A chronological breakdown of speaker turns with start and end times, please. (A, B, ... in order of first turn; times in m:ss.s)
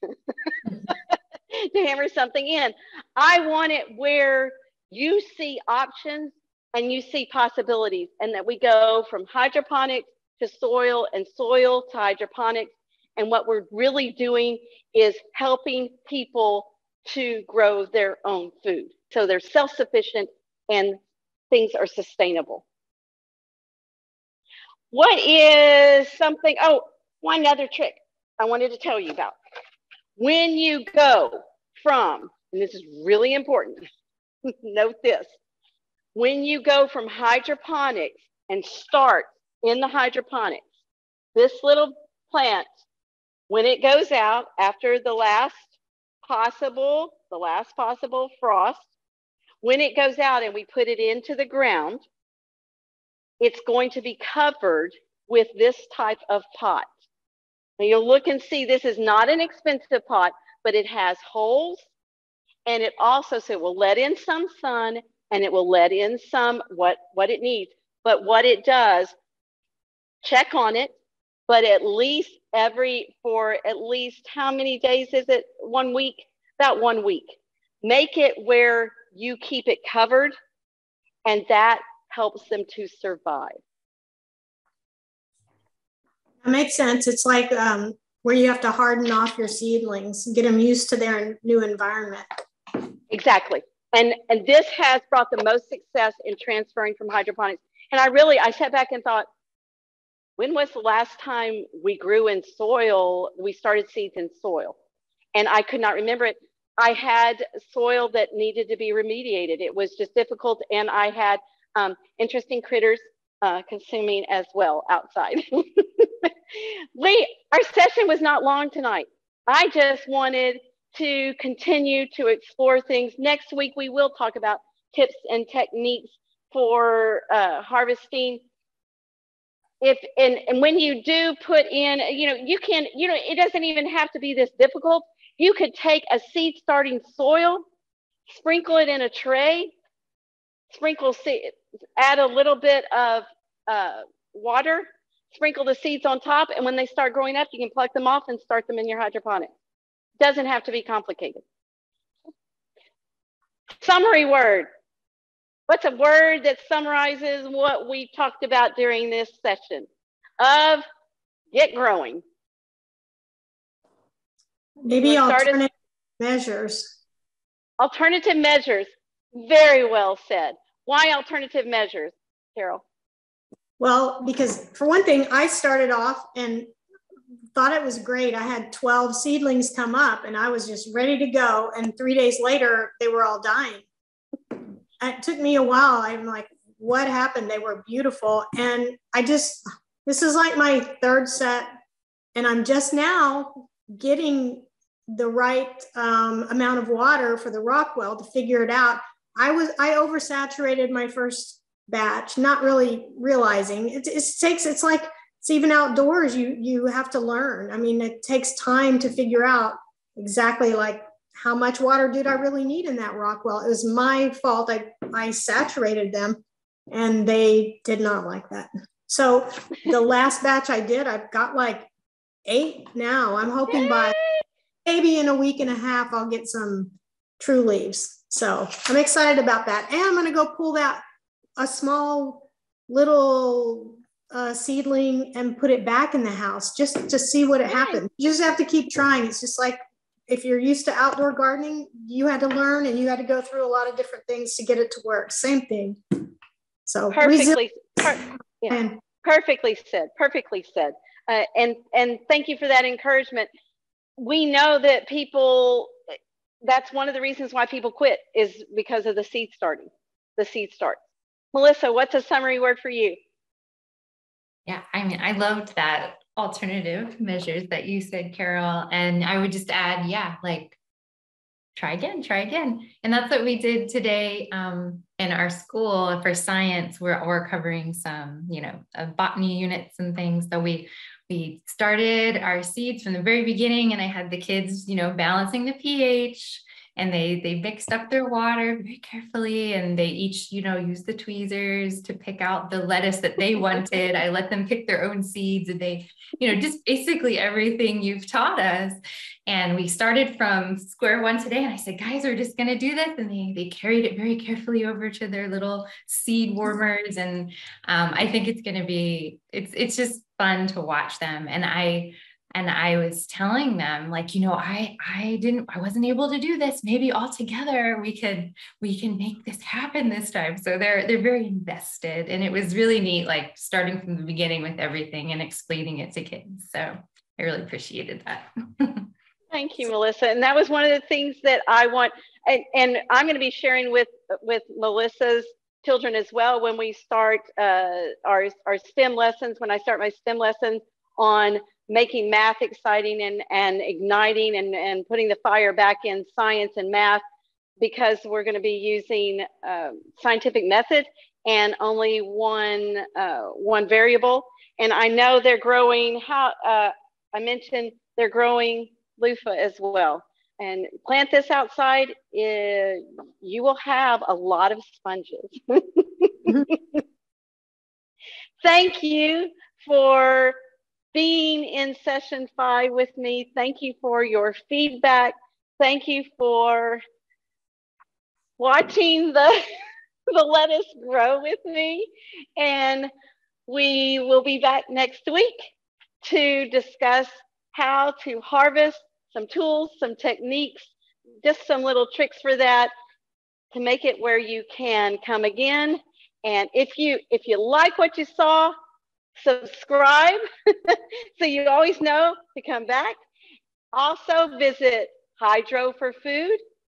0:00.4-0:21.0 A
0:21.5-0:22.6 A
0:24.9-0:29.4 A
0:30.2-0:33.8 A
0:34.6-0:35.3 A
0:36.1-0:40.6 A
0:41.3-0:42.7 A
0:43.5-0:45.7 A
0:46.2-0:48.8 A
0:49.6-0:52.0 A
0:53.4-0:56.9 A
0:57.8-1:01.8 A
1:02.7-1:09.1 A
1:10.2-1:11.0 A
1:11.5-1:20.3 A
1:21.2-1:23.5 A
1:26.4-1:32.3 B
1:33.1-1:39.3 A
1:40.4-1:44.7 A
1:45.3-2:08.4 A
2:09.8-2:17.6 A
2:18.3-2:19.7 A
2:20.7-2:29.5 A
2:30.2-2:31.4 A
2:33.8-2:34.7 A
2:35.7-2:39.9 A
2:40.4-2:40.8 A
2:41.5-2:42.2 A
2:44.8-2:47.0 B
2:45.0-2:45.6 A
2:47.8-2:52.8 A
2:53.8-2:56.7 B
2:57.5-3:03.8 B
3:05.0-3:11.7 B
3:12.3-3:41.9 B
3:42.4-3:44.2 B
3:43.7-3:44.4 A
3:44.8-3:51.0 B
3:51.6-4:06.0 B
3:57.7-3:58.0 A
4:06.8-4:08.1 B
4:07.1-4:13.5 A
4:08.7-4:09.0 B
4:14.2-4:15.9 A
4:16.6-4:21.0 A
4:21.5-4:23.2 A
4:24.6-4:30.8 C
4:31.8-5:29.0 C
5:29.5-5:47.2 A
5:47.8-6:07.0 A
6:08.6-6:10.5 A
6:11.1-6:17.0 A
6:18.6-6:19.6 A
6:20.3-6:23.1 A
6:23.7-6:25.7 A
6:26.2-6:30.9 A
6:31.4-6:32.9 A
6:33.7-6:38.7 A
6:39.4-6:43.2 A
6:43.9-6:46.6 A